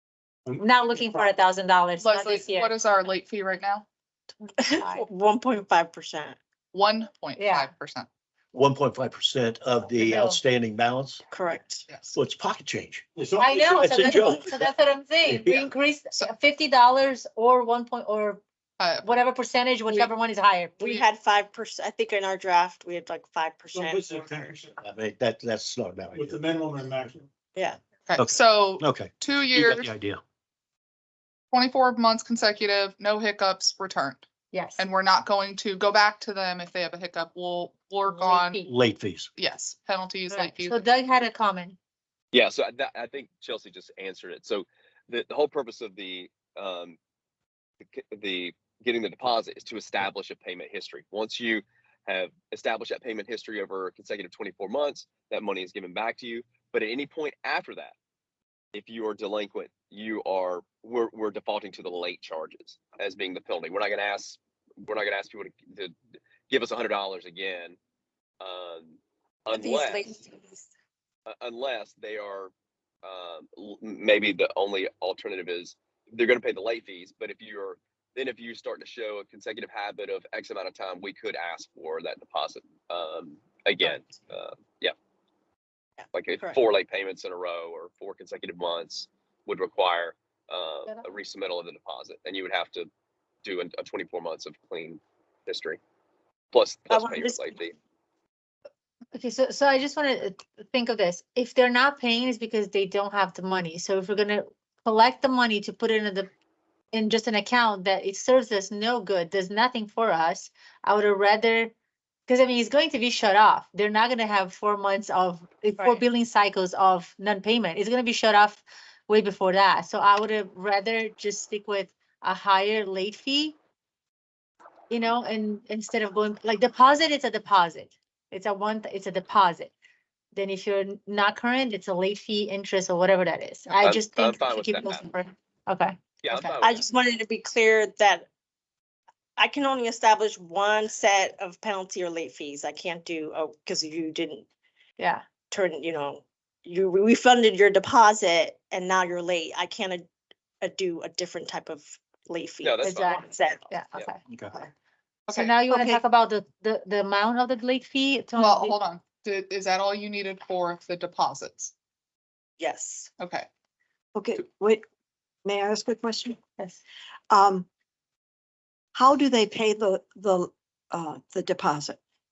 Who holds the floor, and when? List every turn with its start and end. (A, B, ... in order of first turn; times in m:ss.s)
0:00.4-0:01.3 A
0:00.6-0:02.7 B
0:02.0-0:03.8 C
0:04.4-0:05.1 B
0:04.6-0:06.4 D
0:06.7-0:08.1 C
0:07.3-0:07.7 B
0:08.5-0:11.2 E
0:10.0-0:10.4 B
0:11.3-0:11.9 D
0:11.9-0:12.1 C
0:12.1-0:13.0 E
0:13.2-0:14.2 A
0:13.4-0:18.4 B
0:13.6-0:14.7 E
0:15.2-0:15.7 E
0:18.8-0:19.1 C
0:19.0-0:21.0 B
0:20.8-0:24.6 D
0:23.7-0:24.8 A
0:24.8-0:26.4 E
0:26.1-0:27.3 A
0:27.6-0:27.8 D
0:28.0-0:29.9 C
0:28.2-0:30.2 E
0:31.5-0:34.2 C
0:34.5-0:34.8 B
0:34.8-0:38.6 C
0:38.0-0:38.7 B
0:38.6-0:39.3 E
0:39.4-0:40.8 C
0:40.3-0:41.8 B
0:42.3-0:47.0 F
0:47.9-0:57.9 F
0:58.7-1:05.9 F
1:06.5-1:07.8 F
1:08.4-1:10.1 F
1:09.5-1:10.6 D
1:11.3-1:12.5 F
1:13.0-1:24.9 F
1:26.0-1:26.6 D
1:26.1-1:32.9 F
1:33.4-1:35.8 F
1:36.5-1:37.7 F
1:36.9-1:37.5 D
1:39.1-1:46.3 B
1:46.9-1:51.7 B
1:52.3-2:03.6 B
1:55.8-1:56.0 D
2:04.9-2:09.7 B
2:10.3-2:16.6 B
2:13.8-2:15.0 F
2:16.2-2:16.8 F
2:16.6-2:18.3 D
2:19.4-2:24.4 D
2:25.0-2:25.2 B
2:25.5-2:30.1 D
2:30.6-2:33.7 D
2:32.6-2:33.2 F
2:32.8-2:34.2 B
2:35.3-2:35.6 C
2:35.3-2:38.8 B
2:35.7-2:36.0 G
2:38.4-2:41.7 C
2:42.6-2:43.1 D
2:43.2-2:43.5 C
2:44.1-2:44.8 G
2:45.4-2:46.4 G
2:47.3-2:47.7 G
2:48.9-2:52.0 G